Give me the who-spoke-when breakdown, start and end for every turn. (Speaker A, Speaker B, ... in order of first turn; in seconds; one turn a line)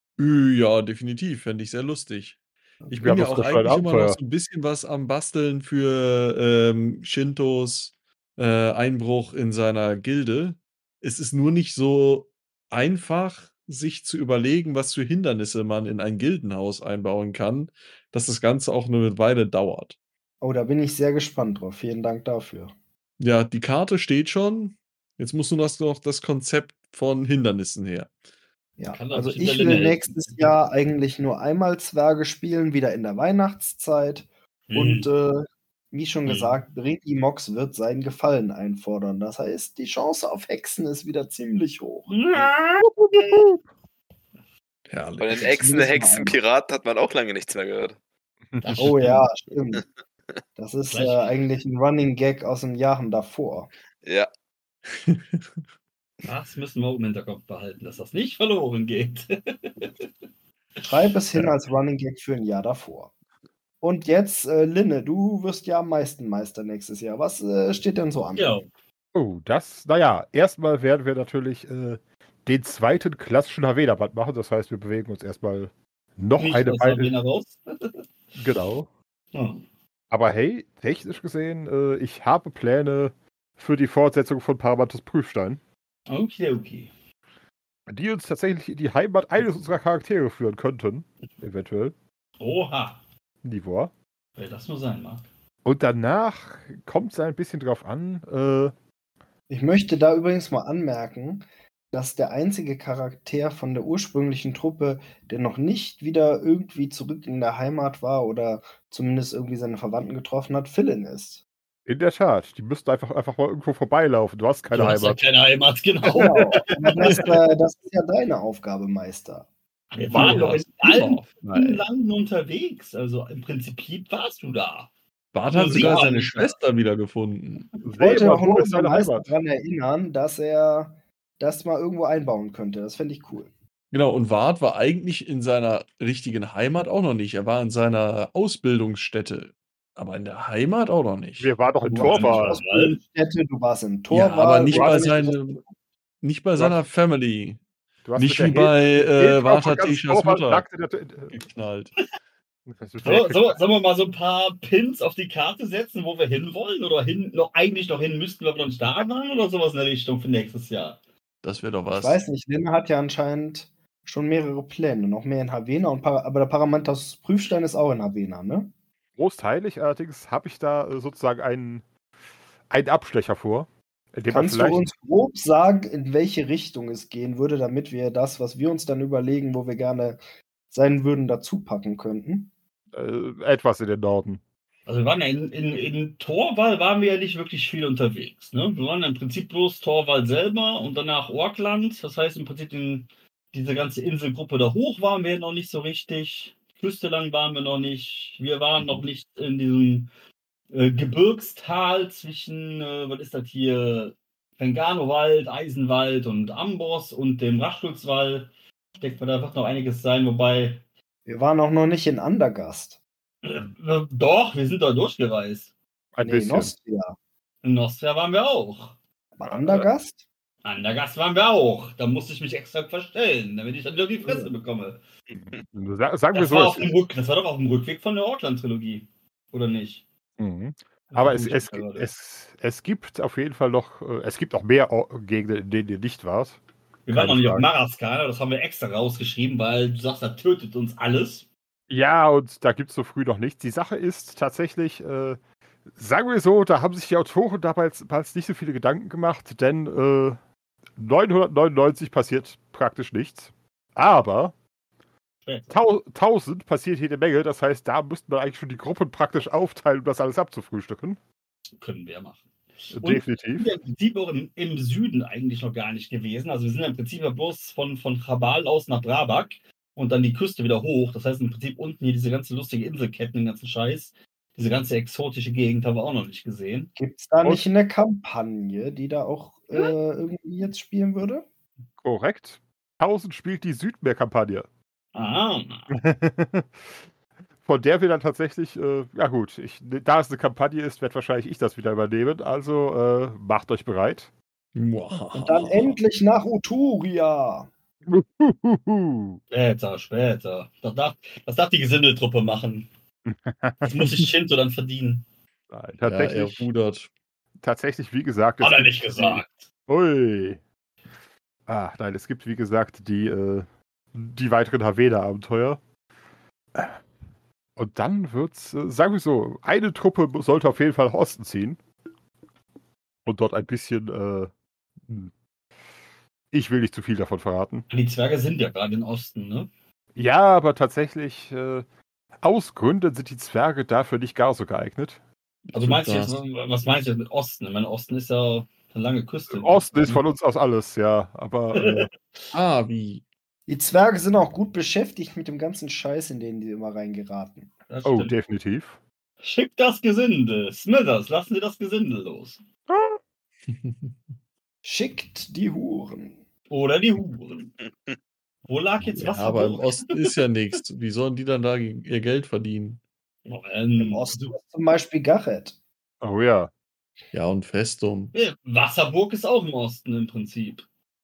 Speaker A: 0.2-2.4
Speaker A: 2.9-19.9
Speaker B: 2.9-4.2
Speaker C: 20.4-22.7
Speaker A: 23.2-28.1
Speaker C: 28.8-42.5
Speaker D: 28.9-30.1
Speaker D: 34.7-35.1
Speaker D: 36.3-36.6
Speaker D: 42.1-43.3
Speaker B: 43.2-43.5
Speaker A: 44.9-45.5
Speaker E: 45.2-48.0
Speaker C: 45.4-46.4
Speaker B: 48.5-48.8
Speaker D: 48.6-49.2
Speaker C: 48.8-49.8
Speaker C: 50.6-53.7
Speaker D: 50.9-51.3
Speaker E: 54.0-54.3
Speaker A: 55.0-55.6
Speaker D: 56.2-59.9
Speaker C: 60.9-63.1
Speaker C: 63.8-68.5
Speaker D: 68.4-68.7
Speaker B: 69.1-77.1
Speaker D: 76.4-78.0
Speaker B: 78.3-78.9
Speaker D: 79.3-79.6
Speaker B: 80.1-85.6
Speaker D: 86.1-86.9
Speaker B: 87.9-91.9
Speaker D: 92.4-93.0
Speaker B: 93.4-93.9
Speaker D: 94.4-95.3
Speaker B: 95.7-98.7
Speaker C: 99.5-111.4
Speaker B: 111.9-115.2
Speaker D: 114.7-116.4
Speaker C: 116.1-119.5
Speaker B: 116.2-116.6
Speaker D: 119.9-124.9
Speaker B: 120.1-120.6
Speaker A: 120.1-121.3
Speaker B: 121.4-121.8
Speaker A: 125.3-127.7
Speaker D: 125.5-126.6
Speaker B: 127.8-129.3
Speaker C: 128.0-133.5
Speaker A: 133.9-141.5
Speaker B: 141.4-142.6
Speaker D: 141.9-143.0
Speaker C: 141.9-145.6
Speaker A: 144.1-145.6
Speaker B: 144.7-145.3
Speaker A: 146.2-147.6
Speaker B: 146.6-146.8
Speaker B: 148.1-151.4
Speaker A: 148.2-150.6
Speaker A: 151.3-151.9
Speaker B: 152.7-153.6
Speaker D: 153.0-161.0
Speaker A: 161.4-162.2
Speaker C: 161.9-168.7
Speaker B: 169.2-171.8
Speaker B: 172.7-174.9
Speaker C: 174.3-180.2
Speaker C: 180.7-182.5
Speaker B: 182.9-184.4
Speaker D: 184.9-200.1
Speaker D: 200.7-210.8
Speaker C: 211.3-213.0
Speaker D: 213.4-215.7
Speaker B: 216.2-216.7
Speaker C: 216.2-217.2
Speaker D: 217.6-218.9
Speaker C: 219.4-220.2
Speaker B: 219.5-219.9
Speaker D: 220.6-225.0
Speaker B: 225.4-226.9
Speaker D: 226.3-230.0
Speaker B: 230.4-237.7
Speaker D: 231.1-232.1
Speaker D: 237.1-241.5
Speaker B: 241.9-245.4
Speaker B: 246.0-250.4
Speaker B: 251.0-254.6
Speaker D: 255.4-255.7
Speaker B: 255.7-261.2
Speaker D: 261.8-276.9
Speaker B: 262.9-263.7
Speaker C: 277.0-281.4
Speaker B: 282.0-284.7
Speaker D: 285.1-285.9
Speaker B: 285.9-286.7
Speaker B: 287.6-294.3
Speaker A: 294.8-296.0
Speaker C: 295.4-297.7
Speaker B: 298.1-299.4
Speaker D: 299.5-302.9
Speaker B: 303.3-304.1
Speaker D: 303.8-305.2
Speaker B: 305.7-306.7
Speaker A: 306.1-307.1
Speaker B: 307.6-310.6
Speaker D: 308.6-309.7
Speaker B: 311.7-315.8
Speaker B: 316.8-317.0
Speaker B: 317.8-321.8
Speaker B: 323.3-324.5
Speaker B: 325.0-325.3
Speaker B: 326.5-327.9
Speaker D: 327.9-329.7
Speaker B: 330.2-331.9
Speaker B: 332.4-335.2
Speaker D: 335.7-340.2
Speaker A: 335.8-336.4
Speaker B: 339.5-342.1
Speaker D: 341.8-342.1
Speaker A: 342.5-343.2
Speaker C: 343.7-347.7
Speaker D: 347.9-348.3
Speaker B: 348.1-349.0
Speaker D: 349.4-352.6
Speaker B: 352.9-353.2
Speaker A: 353.8-354.1
Speaker C: 354.8-356.4
Speaker D: 356.7-357.7
Speaker D: 358.7-360.1
Speaker A: 359.2-363.0
Speaker D: 363.5-364.6
Speaker C: 364.0-365.8
Speaker B: 366.2-366.7
Speaker A: 367.3-368.3
Speaker D: 368.3-370.8